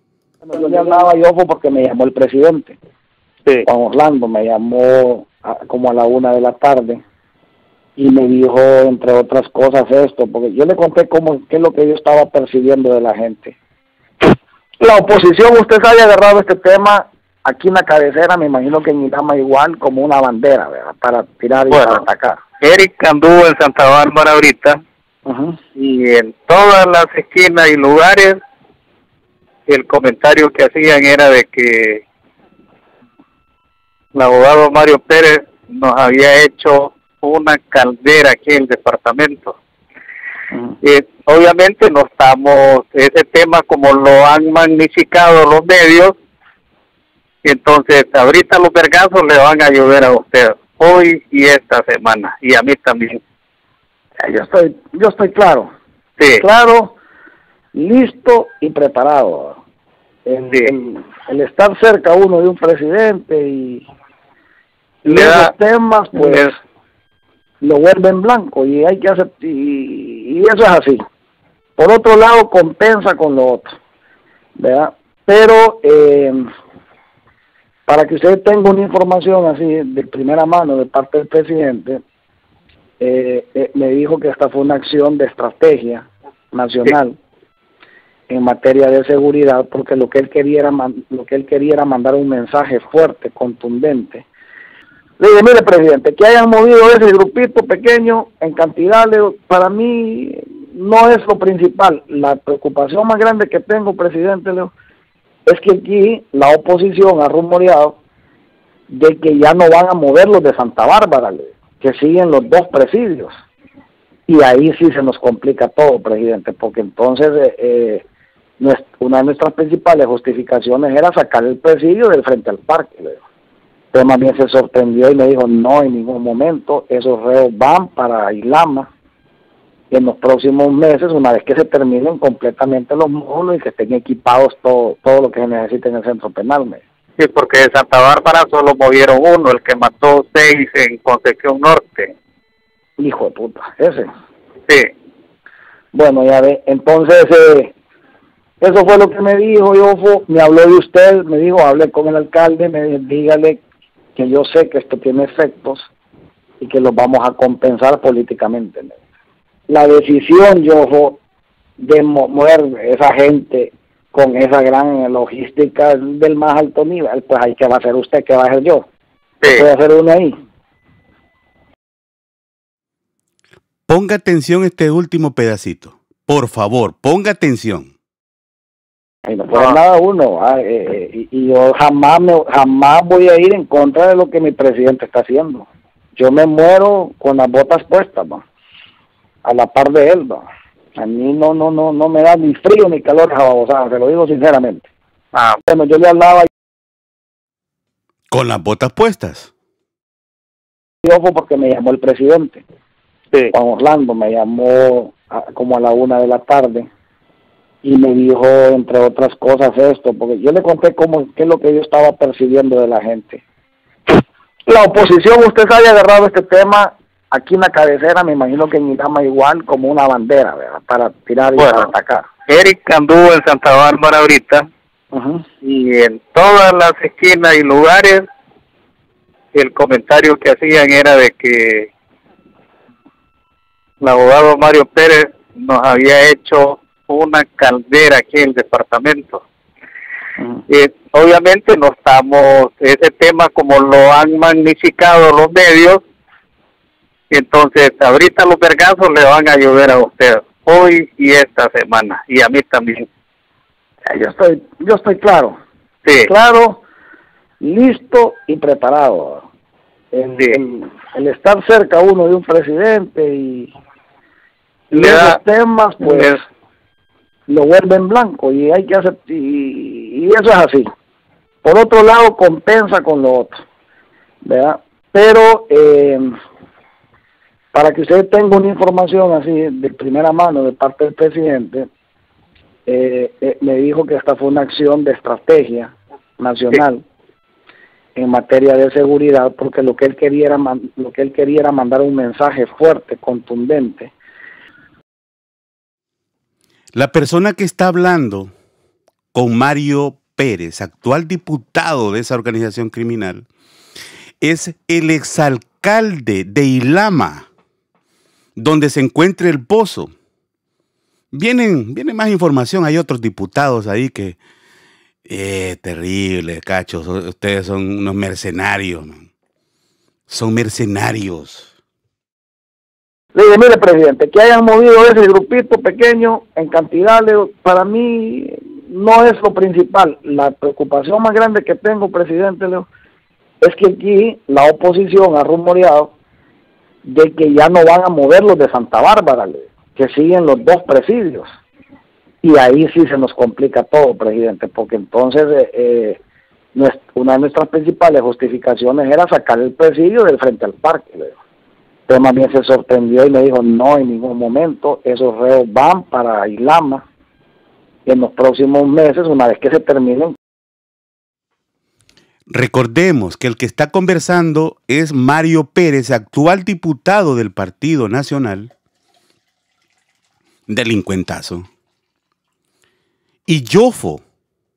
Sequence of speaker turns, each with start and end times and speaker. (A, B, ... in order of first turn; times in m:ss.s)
0:00.5-0:02.8 A
0:03.6-0:07.0 A
0:08.0-0:13.5 A
0:14.8-0:22.4 A
0:21.7-0:22.0 B
0:22.6-0:24.8 B
0:25.2-0:25.6 A
0:25.8-0:28.4 B
0:29.7-0:32.0 B
0:34.1-0:39.5 B
0:40.8-0:46.1 B
0:47.4-0:53.2 B
0:54.2-0:55.7 A
0:56.2-0:56.4 B
0:56.4-0:56.9 A
0:57.7-0:59.6 A
1:00.3-1:03.8 A
1:00.4-1:00.7 B
1:05.0-1:06.5 A
1:05.1-1:05.5 B
1:06.2-1:06.5 B
1:07.6-1:11.0 A
1:11.8-1:13.8 A
1:14.6-1:16.5 A
1:17.9-1:22.0 A
1:23.0-1:27.2 A
1:28.3-1:34.2 A
1:35.2-1:44.7 A
1:45.4-1:48.0 A
1:48.9-1:53.3 A
1:54.3-1:58.0 A
1:58.6-2:03.2 A
2:03.9-2:08.9 A
2:09.9-2:16.8 A
2:17.2-2:22.1 B
2:23.0-2:24.1 A
2:25.9-2:27.7 A
2:28.6-2:33.6 A
2:34.2-2:35.9 A
2:36.6-2:39.0 A
2:39.7-2:41.2 A
2:41.8-2:48.8 A
2:49.4-2:50.4 A
2:53.9-2:57.9 C
2:59.3-3:08.4 A
2:59.5-2:59.8 B
3:09.4-3:10.4 A
3:11.0-3:14.8 A
3:15.3-3:15.6 B
3:15.6-3:16.5 A
3:18.3-3:19.5 C
3:21.0-3:22.6 A
3:23.5-3:26.9 A
3:27.8-3:33.4 A
3:34.7-3:42.2 A
3:41.6-3:41.9 B
3:42.5-3:44.6 B
3:45.1-3:45.4 A
3:45.6-3:48.2 B
3:49.5-3:51.9 B
3:54.0-3:59.4 B
4:00.7-4:06.0 B
4:07.3-4:13.1 B
4:14.1-4:15.6 A
4:16.0-4:16.3 B
4:16.3-4:16.8 A
4:17.6-4:19.4 A
4:20.1-4:23.7 A
4:20.3-4:20.6 B
4:24.9-4:25.4 B
4:24.9-4:26.4 A
4:26.0-4:26.4 B
4:27.5-4:30.9 A
4:31.6-4:33.6 A
4:34.4-4:36.3 A
4:37.7-4:41.9 A
4:42.9-4:47.0 A
4:48.2-4:54.1 A
4:56.9-4:58.5 C
4:59.3-5:03.4 C
5:04.4-5:07.5 C
5:08.6-5:10.1 C
5:11.3-5:14.4 C
5:15.2-5:19.3 C
5:20.3-5:21.7 C
5:23.3-5:32.9 A
5:33.6-5:36.1 A
5:37.0-5:41.5 A
5:42.4-5:46.2 A
5:46.7-5:51.4 A
5:52.1-5:57.0 A
5:58.0-6:00.4 A
6:02.5-6:08.7 C
6:10.7-6:11.7 C
6:13.5-6:14.2 C